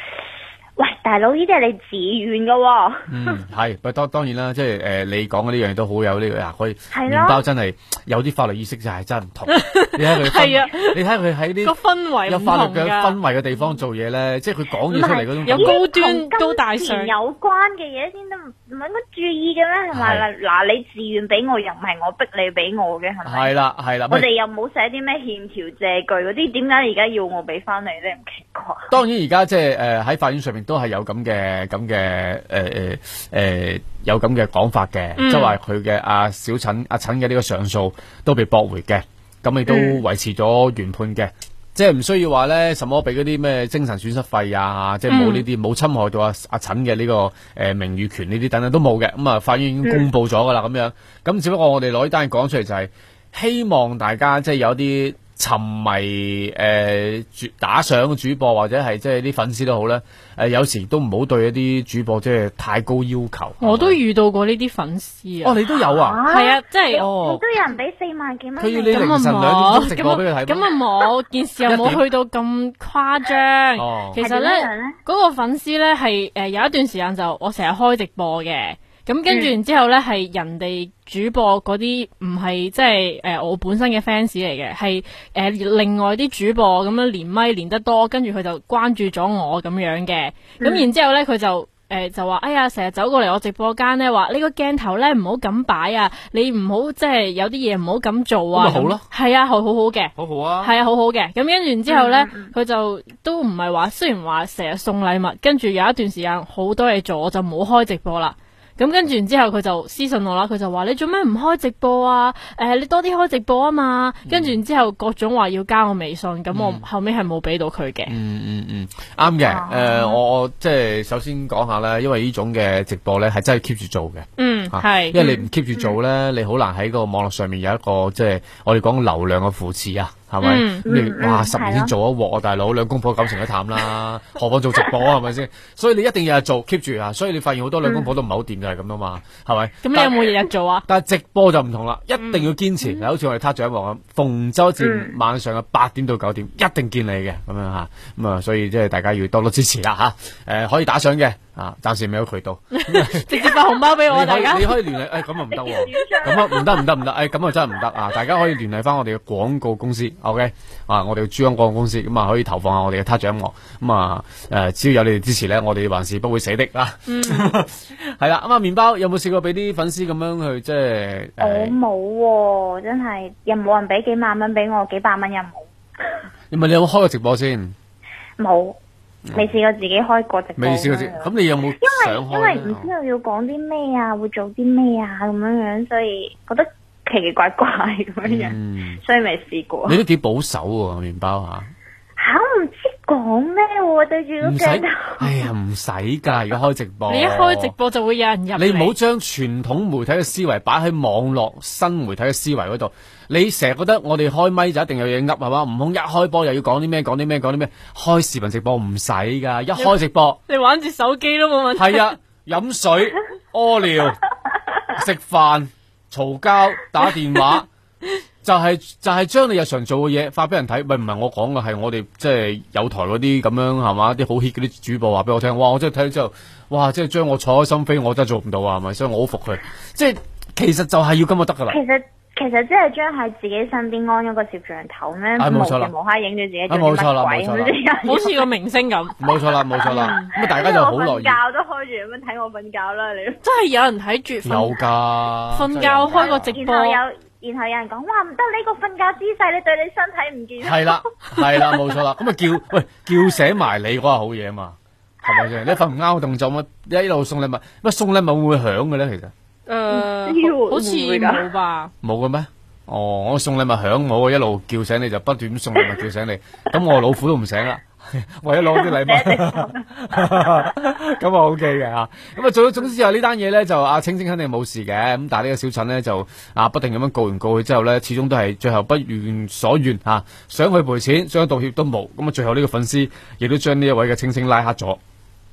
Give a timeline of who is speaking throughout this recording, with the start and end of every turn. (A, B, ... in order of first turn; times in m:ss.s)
0:00.8-0:03.4 A
0:03.1-0:11.8 B
0:06.9-0:07.4 A
0:09.5-0:11.0 C
0:11.6-0:13.2 C
0:12.3-0:15.8 B
0:14.9-0:23.5 A
0:15.4-0:17.1 C
0:19.9-0:20.3 B
0:23.2-0:24.3 B
0:24.1-0:28.9 A
0:28.9-1:04.0 B
0:35.2-0:35.6 C
0:39.7-0:40.0 A
0:45.1-0:45.5 C
1:03.6-1:05.6 C
1:05.4-1:06.2 B
1:05.9-1:09.2 A
1:06.3-1:07.1 C
1:06.9-1:07.4 B
1:08.6-1:10.7 B
1:08.9-1:58.1 C
1:11.7-1:12.0 B
1:13.8-1:14.2 B
1:14.2-1:15.0 A
1:30.6-1:30.9 A
1:38.5-1:39.0 B
1:40.2-1:40.7 B
1:41.9-1:42.5 A
1:54.3-1:54.6 B
1:56.5-1:56.9 B
1:58.1-2:20.1 B
1:59.5-2:00.2 A
2:04.4-2:05.4 C
2:10.4-2:10.8 C
2:10.8-2:11.9 A
2:17.8-2:18.1 A
2:19.8-2:20.8 C
2:20.9-2:33.3 B
2:22.2-2:23.0 C
2:24.8-2:25.2 A
2:32.7-2:34.8 C
2:34.1-2:51.8 B
2:35.5-2:36.9 A
2:47.1-2:47.6 C
2:51.4-2:56.2 A
2:56.5-2:57.8 B
2:58.4-2:58.8 A
2:59.3-2:59.5 B
2:59.3-3:10.0 A
3:00.6-3:02.9 B
3:08.2-3:09.0 B
3:09.9-3:11.7 B
3:12.2-3:15.3 A
3:14.4-3:17.8 B
3:17.1-3:18.9 C
3:18.6-3:30.4 B
3:29.8-3:32.1 C
3:31.8-3:34.2 B
3:34.9-3:37.7 B
3:38.4-3:51.8 B
3:51.7-3:58.4 A
3:55.4-3:55.9 B
3:56.7-3:57.8 B
3:58.0-3:59.2 C
3:59.2-4:01.4 B
3:59.2-4:03.4 A
3:59.9-4:00.3 C
4:03.4-4:04.8 C
4:04.4-4:06.5 B
4:05.5-4:07.0 C
4:06.1-4:11.0 A
4:10.6-4:19.3 B
4:15.2-4:15.5 A
4:19.7-4:21.9 C
4:19.9-4:21.5 A
4:22.0-4:45.0 B
4:28.7-4:30.3 A